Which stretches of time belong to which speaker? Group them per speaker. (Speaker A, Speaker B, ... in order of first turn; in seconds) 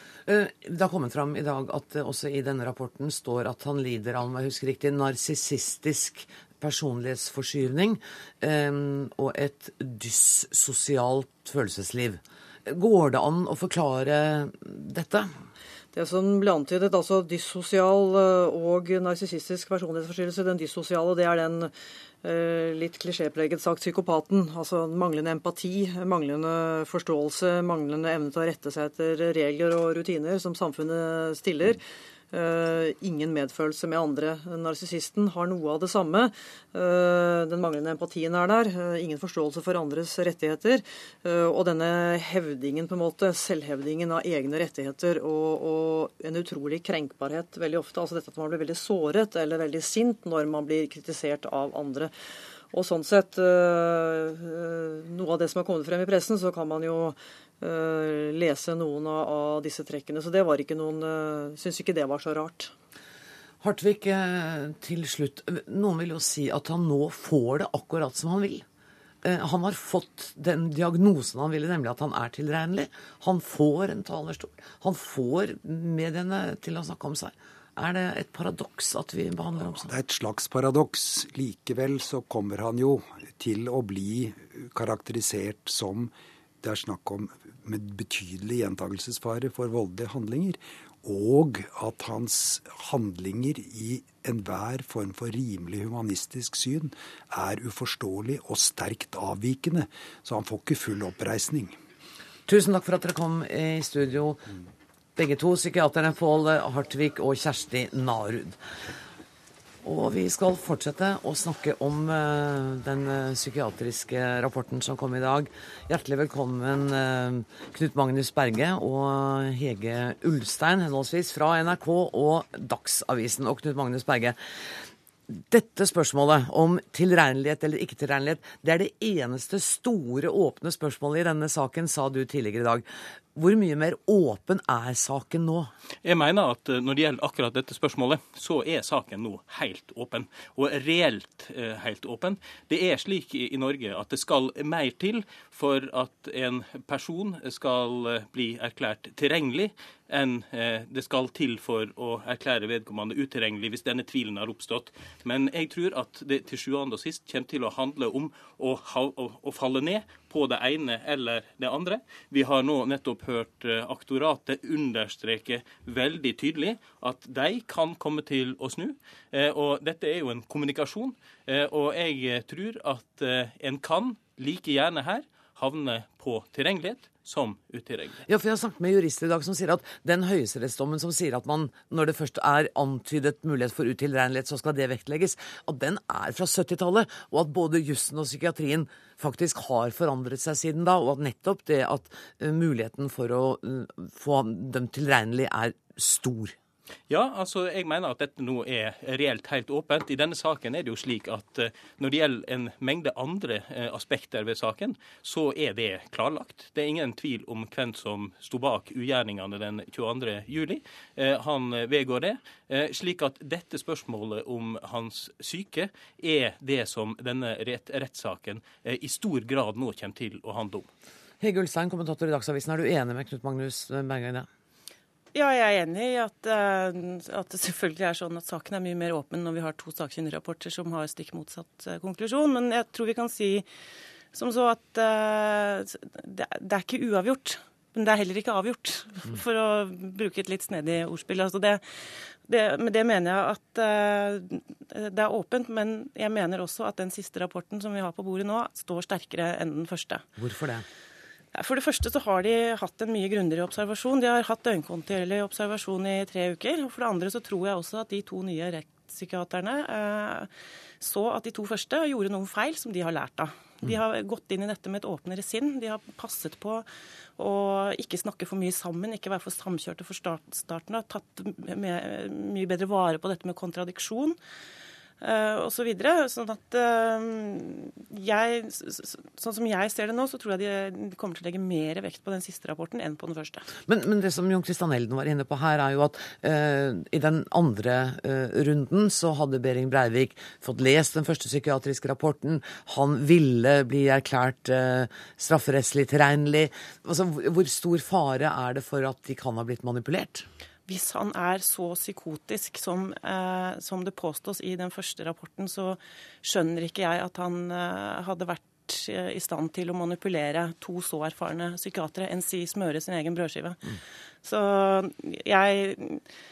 Speaker A: 0.3-15.3, 63.6-68.7, 69.2-79.9, 102.5-104.5, 105.2-108.6, 109.8-124.8, 125.3-135.7, 178.3-196.6, 221.4-224.5, 250.4-250.9, 283.9-300.5
Speaker B: 15.9-31.8, 32.3-52.1, 52.7-62.7
Speaker C: 79.6-101.8
Speaker D: 136.0-178.2, 197.1-220.9
Speaker E: 225.3-233.7, 234.3-250.2, 251.5-266.9, 267.4-274.4, 275.2-283.7, 300.9-313.8, 314.4-316.2